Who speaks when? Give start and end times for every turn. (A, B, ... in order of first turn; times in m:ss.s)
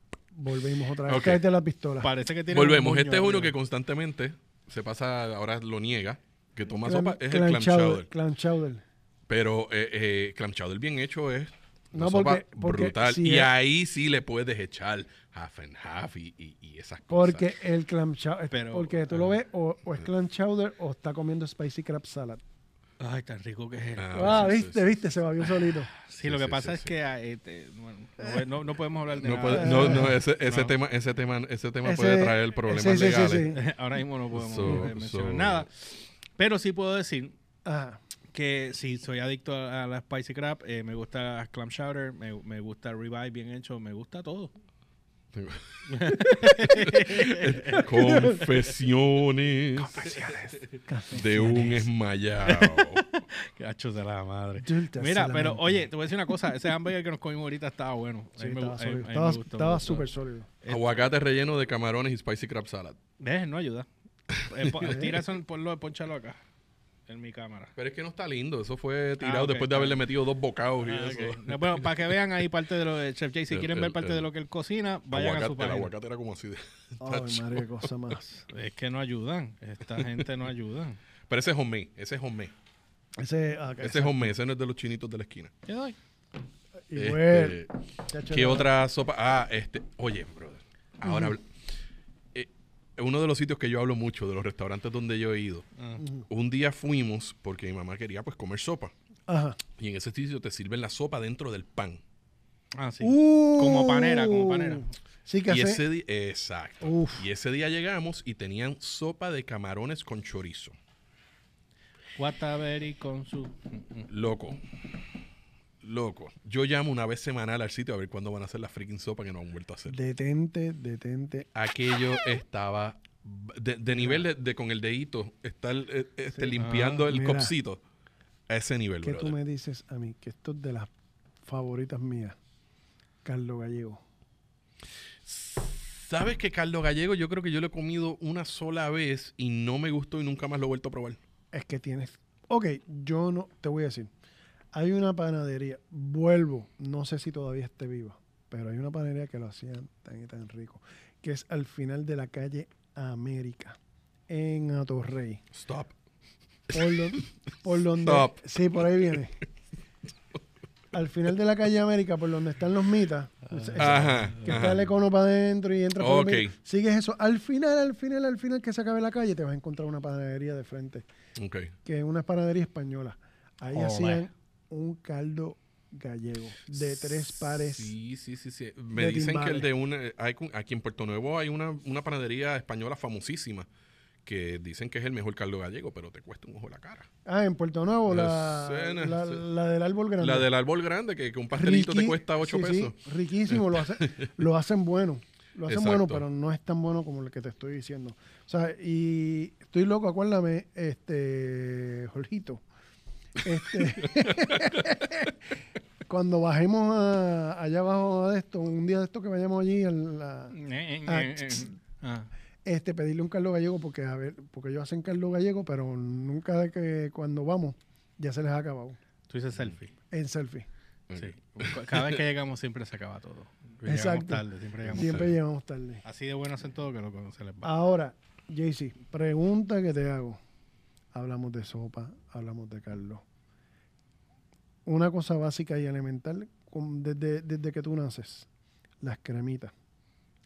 0:00.3-0:02.1 A
0:01.0-0:01.4 B
0:02.0-0:03.5 C
0:02.5-0:08.1 B
0:06.8-0:08.8 A
0:09.3-0:17.5 B
0:11.9-0:13.5 A
0:17.1-0:22.4 A
0:18.5-0:19.3 C
0:23.0-0:24.6 C
0:24.0-0:24.9 B
0:24.1-0:25.9 A
0:25.6-0:30.7 C
0:26.2-0:26.9 B
0:29.2-0:33.5 B
0:29.5-0:30.2 A
0:31.8-0:33.6 A
0:33.4-0:37.3 C
0:34.3-0:35.7 B
0:37.6-0:38.0 A
0:38.3-0:44.5 C
0:45.3-0:50.3 B
0:45.9-0:47.9 C
0:47.8-0:48.5 A
0:49.8-0:51.9 A
0:51.1-0:53.0 B
0:52.4-1:00.0 C
0:54.6-0:55.9 A
0:58.4-1:00.5 A
1:00.6-1:00.9 C
1:00.7-1:03.0 B
1:03.2-1:03.9 C
1:04.3-1:05.0 B
1:04.4-1:06.4 C
1:04.8-1:05.1 A
1:07.1-1:07.7 C
1:07.8-1:12.0 B
1:09.2-1:10.0 C
1:10.8-1:15.9 C
1:13.5-1:14.2 B
1:15.1-1:17.7 B
1:17.0-1:18.4 A
1:18.5-1:21.0 C
1:21.3-1:22.5 B
1:23.2-1:24.3 A
1:23.8-1:25.5 B
1:25.6-1:26.0 C
1:26.9-1:28.7 A
1:26.9-1:27.7 B
1:28.3-1:31.4 B
1:31.0-1:31.4 A
1:32.3-1:35.7 B
1:36.0-1:36.2 A
1:36.3-1:38.9 B
1:39.3-1:39.6 A
1:39.8-1:42.0 B
1:42.8-1:44.9 C
1:43.0-1:45.8 A
1:45.5-1:50.7 B
1:46.8-1:47.3 A
1:52.2-1:54.1 C
1:54.1-1:54.6 B
1:55.8-2:00.0 B
1:59.9-2:01.5 A
2:01.5-2:07.8 B
2:03.9-2:04.2 A
2:06.3-2:07.5 A
2:06.6-2:07.0 C
2:08.5-2:09.3 B
2:09.0-2:10.9 A
2:11.4-2:12.4 A
2:13.2-2:14.0 A
2:15.2-2:21.2 B
2:21.5-2:24.1 A
2:24.7-2:33.8 A
2:34.3-2:35.4 A
2:35.5-2:35.9 B
2:36.7-2:37.3 B
2:36.7-2:39.4 A
2:37.9-2:38.4 B
2:40.9-2:51.0 A
2:43.7-2:44.8 B
2:46.0-2:46.5 B
2:51.4-2:51.7 B
2:51.8-2:57.9 A
2:53.7-2:54.2 B
2:56.8-3:03.7 B
2:58.9-2:59.7 A
3:04.2-3:07.1 B
3:07.2-3:10.5 A
3:08.1-3:09.4 B
3:10.2-3:13.0 B
3:11.5-3:22.6 A
3:13.5-3:14.3 B
3:15.7-3:16.2 B
3:23.4-3:25.4 A
3:26.0-3:30.5 A
3:30.5-3:32.3 C
3:31.0-3:31.6 A
3:32.6-3:39.0 A
3:39.3-3:39.9 C
3:40.1-3:40.7 A
3:41.1-3:42.2 B
3:41.1-3:45.3 C
3:43.8-3:46.0 A
3:44.9-3:45.3 B
3:46.0-3:47.7 C
3:47.6-3:50.4 A
3:51.1-3:53.2 A
3:54.8-3:58.5 A
3:59.0-3:59.7 A